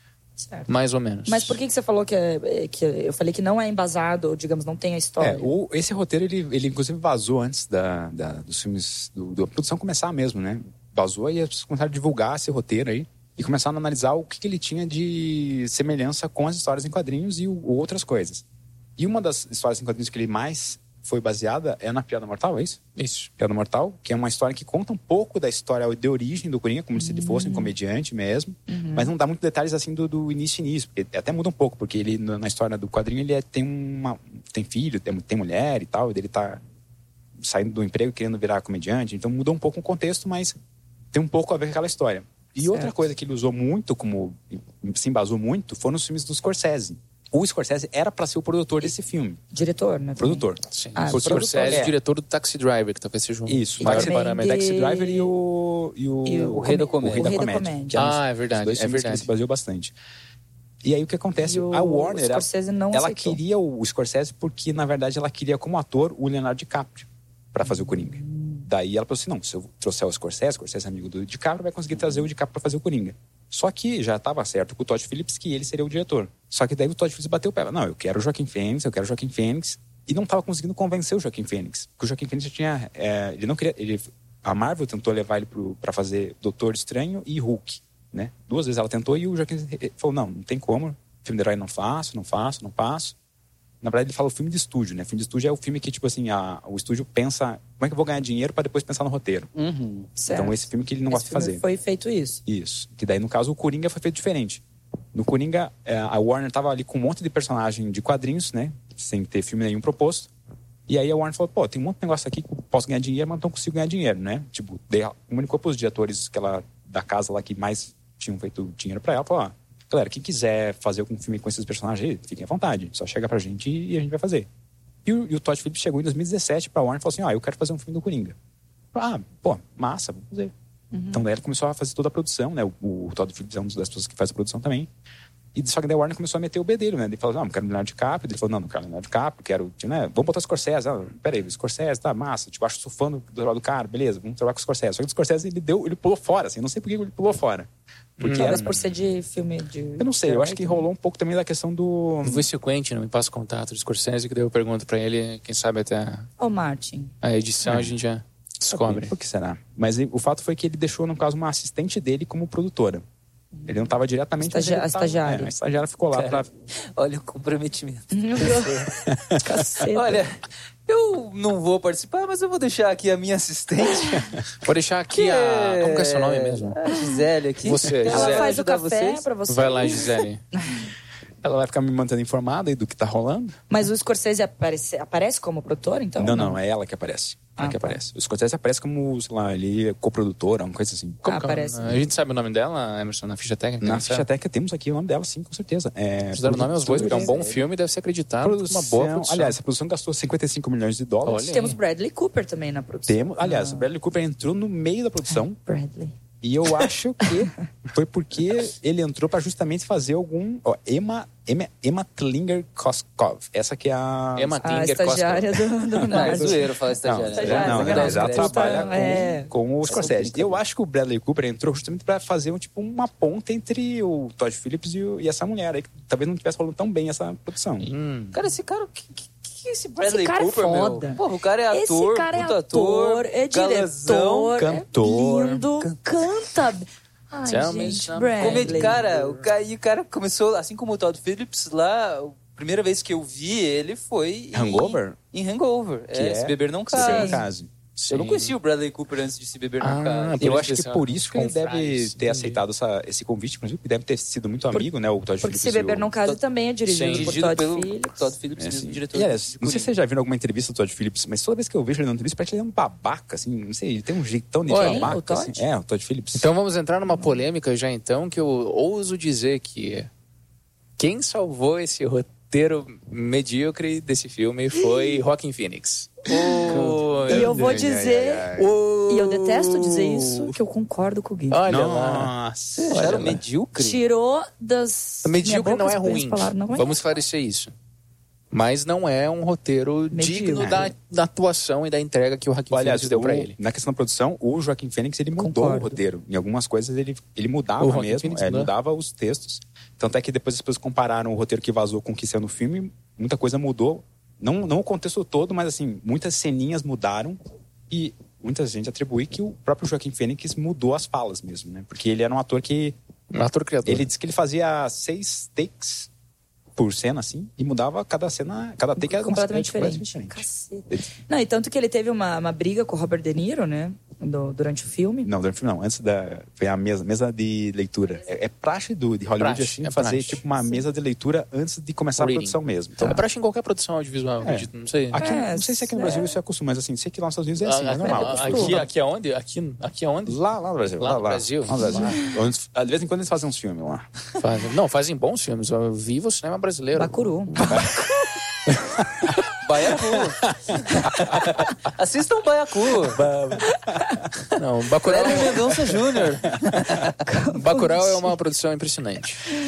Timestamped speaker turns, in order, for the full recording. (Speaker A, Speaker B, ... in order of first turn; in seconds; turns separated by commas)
Speaker A: 0.4-0.7, Speaker B: 0.7-1.6, Speaker A: 1.3-5.5, Speaker C: 5.2-18.4, Speaker C: 19.0-22.8, Speaker B: 23.0-23.3, Speaker C: 23.4-36.6, Speaker A: 27.0-27.7, Speaker A: 28.7-29.1, Speaker C: 37.4-40.5, Speaker C: 41.1-49.4, Speaker A: 42.6-42.9, Speaker A: 49.5-51.9, Speaker C: 50.2-52.0, Speaker B: 50.7-54.5, Speaker C: 53.5-59.9, Speaker A: 53.8-55.3, Speaker A: 56.2-58.0, Speaker D: 56.4-57.4, Speaker B: 57.9-59.3, Speaker C: 60.8-93.1, Speaker A: 61.4-63.4, Speaker A: 67.6-68.7, Speaker C: 93.8-99.5, Speaker D: 99.5-100.1, Speaker A: 100.2-102.4, Speaker C: 100.3-101.6, Speaker C: 102.5-104.6, Speaker C: 105.1-110.3, Speaker C: 110.9-124.5, Speaker C: 125.0-128.3, Speaker C: 128.9-130.5, Speaker A: 130.9-131.2, Speaker C: 131.1-134.9, Speaker C: 135.5-148.7, Speaker B: 148.2-148.8, Speaker A: 148.3-150.9, Speaker C: 150.0-152.5, Speaker B: 152.2-156.3, Speaker A: 156.4-157.1, Speaker B: 157.2-159.1, Speaker C: 157.6-158.0, Speaker C: 158.7-163.0, Speaker A: 163.5-165.5, Speaker C: 163.7-166.5, Speaker D: 166.1-168.7, Speaker A: 168.1-170.2, Speaker C: 169.0-169.4, Speaker D: 169.9-174.3, Speaker B: 174.6-176.8, Speaker D: 175.1-179.3, Speaker B: 177.6-178.5, Speaker A: 178.1-180.9, Speaker B: 179.5-180.4, Speaker C: 181.4-183.5, Speaker A: 183.7-186.6, Speaker C: 186.2-191.2, Speaker A: 187.6-188.0, Speaker B: 191.2-194.3, Speaker A: 191.2-192.0, Speaker C: 193.8-197.3, Speaker B: 196.3-199.6, Speaker D: 196.9-197.7, Speaker C: 198.4-201.6, Speaker B: 201.2-201.8, Speaker A: 201.5-203.9, Speaker C: 203.1-205.6, Speaker A: 205.3-206.1, Speaker C: 206.4-214.6, Speaker A: 207.2-207.5, Speaker B: 214.3-215.7, Speaker A: 214.6-216.7, Speaker D: 216.1-219.3, Speaker C: 216.2-227.9, Speaker A: 217.3-219.5, Speaker D: 219.8-220.6, Speaker B: 227.8-228.3, Speaker D: 228.3-234.6, Speaker A: 230.0-239.0, Speaker C: 234.6-235.6, Speaker B: 237.5-239.4, Speaker D: 238.4-247.4, Speaker C: 244.5-245.2, Speaker C: 246.1-247.7, Speaker A: 246.9-247.4, Speaker B: 248.0-248.6, Speaker D: 248.1-250.6, Speaker B: 249.8-252.6, Speaker C: 250.4-256.1, Speaker A: 255.4-258.3, Speaker B: 256.9-257.4, Speaker D: 257.1-259.9, Speaker C: 258.6-266.5, Speaker B: 264.7-265.1, Speaker A: 264.7-265.6, Speaker B: 266.3-270.1, Speaker B: 271.0-277.7, Speaker D: 276.3-277.8, Speaker A: 277.3-278.5, Speaker C: 277.3-278.7, Speaker A: 279.1-281.6, Speaker B: 281.5-282.3, Speaker C: 281.6-283.4, Speaker D: 282.8-284.0, Speaker B: 282.9-283.2, Speaker A: 283.8-286.9, Speaker B: 285.2-287.7, Speaker B: 288.5-293.6, Speaker A: 290.1-290.7, Speaker C: 290.6-290.9, Speaker C: 292.7-307.4, Speaker A: 295.4-296.0, Speaker B: 297.8-298.7, Speaker C: 307.9-312.9, Speaker B: 313.3-314.1, Speaker C: 313.8-316.1, Speaker C: 316.8-321.1, Speaker A: 319.0-325.3, Speaker C: 325.2-333.1, Speaker B: 329.4-330.4, Speaker B: 332.2-335.2, Speaker C: 334.4-338.9, Speaker A: 335.2-336.3, Speaker B: 337.6-340.4, Speaker A: 338.0-338.8, Speaker C: 340.2-344.1, Speaker B: 341.0-341.8, Speaker D: 341.9-342.1, Speaker B: 344.4-347.2, Speaker A: 346.9-347.9, Speaker C: 347.6-348.1, Speaker B: 348.7-349.0, Speaker D: 349.6-351.3, Speaker C: 350.0-351.4, Speaker D: 351.9-353.2, Speaker B: 353.1-353.6, Speaker C: 353.9-354.2, Speaker B: 354.5-355.9, Speaker D: 355.1-357.1, Speaker A: 357.2-358.3, Speaker B: 357.5-359.5